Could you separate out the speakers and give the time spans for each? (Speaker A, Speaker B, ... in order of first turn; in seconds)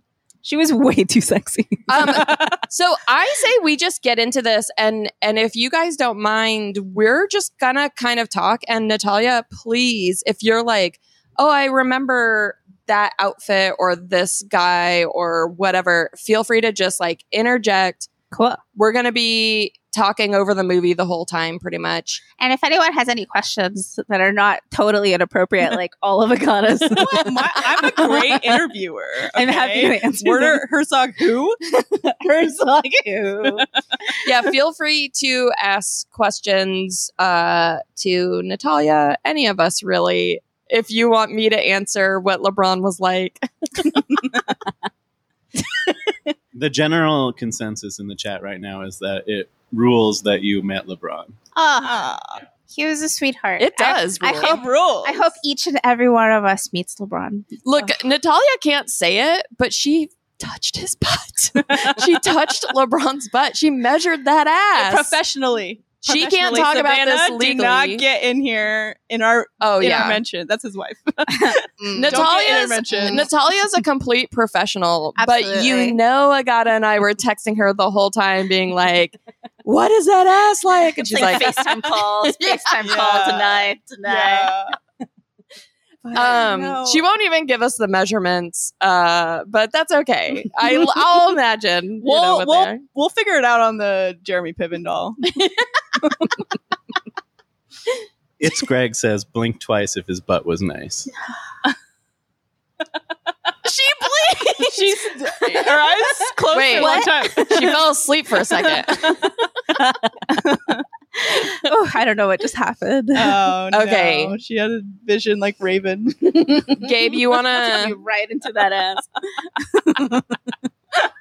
Speaker A: 0.4-1.9, 18.3-18.6, 22.4-28.6, 29.4-30.6, 31.7-33.7, 51.5-52.0, 52.7-57.9, 71.4-72.3, 75.2-76.0, 81.1-84.5, 103.8-105.8, 106.8-107.7, 109.7-110.3, 111.2-113.5, 117.6-120.4
Speaker B: 1.9-18.1, 18.8-22.2, 34.2-44.0, 53.6-54.6, 57.6-65.1, 66.0-68.0, 69.6-70.2, 71.9-83.3, 86.1-92.8, 106.5-109.2, 113.7-114.4, 116.7-118.0
Speaker C: 2.0-2.6, 26.9-31.6, 51.8-52.4, 54.4-55.2, 64.7-73.3, 82.8-84.7, 86.1-87.0, 92.0-95.2, 104.5-107.8, 108.6-109.3, 110.4-110.8, 113.2-116.8
Speaker D: 46.5-51.4, 98.4-101.1